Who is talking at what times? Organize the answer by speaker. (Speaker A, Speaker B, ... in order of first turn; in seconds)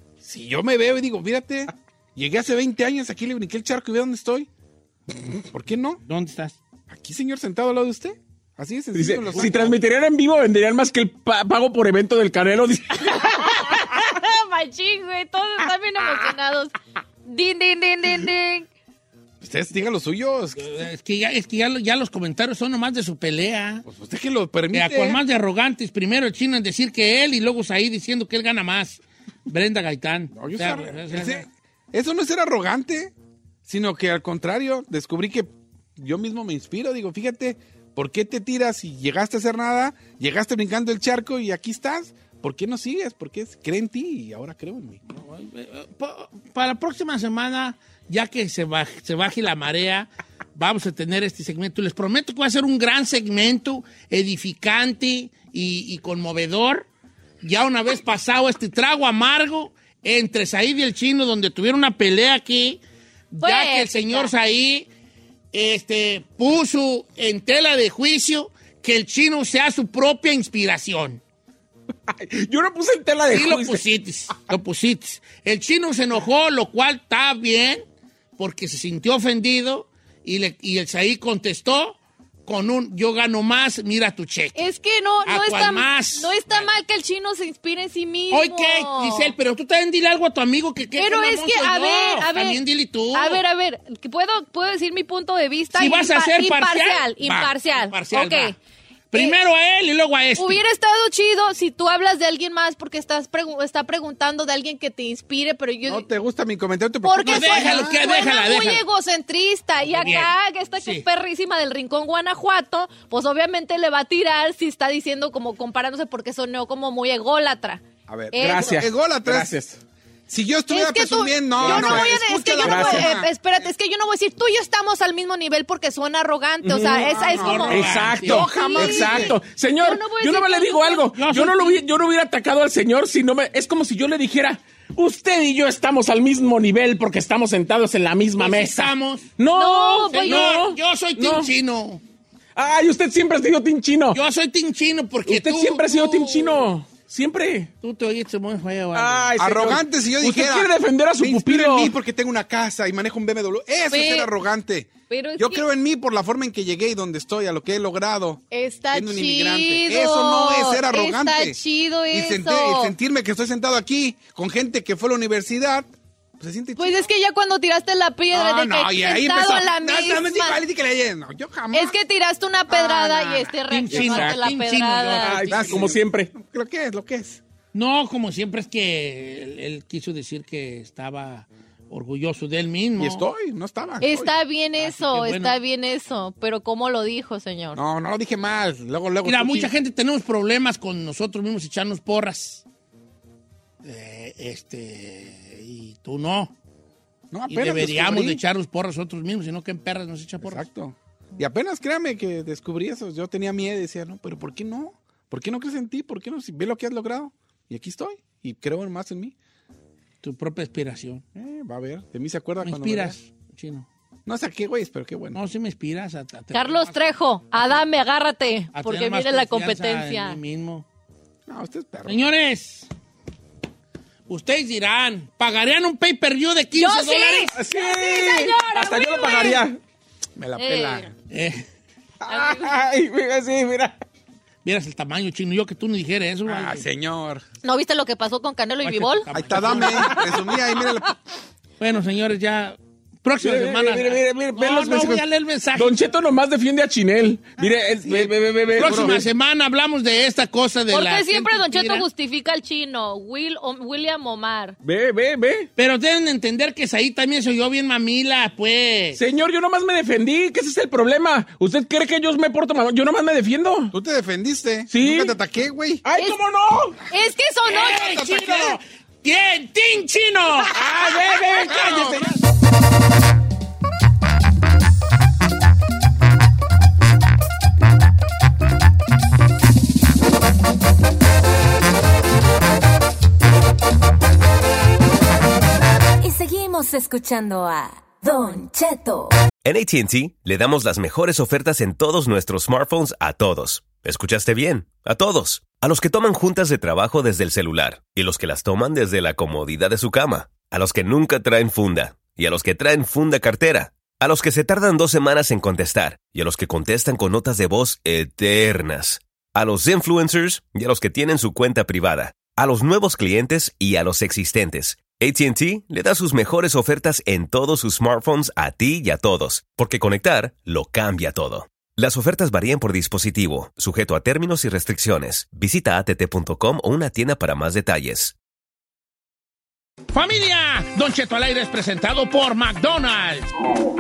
Speaker A: 0.2-4.5, 5.3-6.0, 6.9-9.8, 19.4-20.7, 23.9-25.2, 30.3-33.1, 33.6-45.0, 97.2-97.5, 105.8-108.1, 118.1-119.5, 120.3-123.3, 127.0-129.4, 149.4-161.6, 162.1-167.1, 168.3-172.0, 172.7-173.6, 175.5-177.4, 183.0-184.3, 187.8-189.7, 197.3-198.4, 200.4-209.3, 211.3-213.2, 214.3-215.4, 221.5-222.2, 230.4-231.1, 236.5-237.4, 239.3-241.2, 248.1-249.2, 263.9-266.0, 267.7-268.8, 271.7-272.3
Speaker B: 6.0-6.6, 20.6-23.9, 24.7-31.5, 45.1-56.9, 57.4-62.8, 63.3-64.9, 65.5-71.2, 73.3-77.8, 78.4-84.6, 85.2-86.7, 88.3-93.4, 95.8-98.6, 99.1-100.6, 107.2-108.8, 109.9-111.0, 127.3-128.5, 131.1-131.8, 138.4-139.3, 140.2-142.0, 144.1-146.7, 147.8-149.4, 173.7-175.9, 177.7-183.3, 184.8-185.6, 189.2-192.6, 193.8-196.5, 197.5-200.6, 210.2-211.2, 212.6-213.9, 215.3-217.0, 218.7-220.8, 222.1-222.9, 224.3-227.5, 231.3-231.6, 234.7-236.8, 238.8-240.3, 241.8-246.0, 248.7-252.1, 255.8-259.2, 267.7-270.8, 271.5-272.4, 330.1-333.5
Speaker C: 8.9-13.4, 72.1-73.8, 118.4-119.8, 121.6-122.0, 122.6-123.1, 126.6-127.1, 127.7-141.5, 142.6-144.2, 145.3-147.7, 148.9-151.9, 173.9-174.4, 175.2-176.3, 227.5-229.8, 232.2-234.0, 243.4-249.3, 254.8-255.7, 259.2-263.9, 264.9-265.4, 266.0-267.0, 270.7-272.1
Speaker D: 13.2-16.7, 17.3-18.7, 63.4-64.3, 84.6-89.3, 91.0-92.6, 93.1-98.6, 100.4-106.1, 107.0-118.8, 120.7-131.1, 139.5-140.5, 153.9-154.3, 155.1-155.7, 158.5-162.9, 166.8-170.6, 171.7-175.4, 184.0-187.8, 216.5-220.4, 226.8-229.7, 230.6-231.1, 232.3-232.8, 237.6-239.2, 250.9-254.8, 267.1-268.2
Speaker E: 286.2-289.3
Speaker F: 289.6-328.4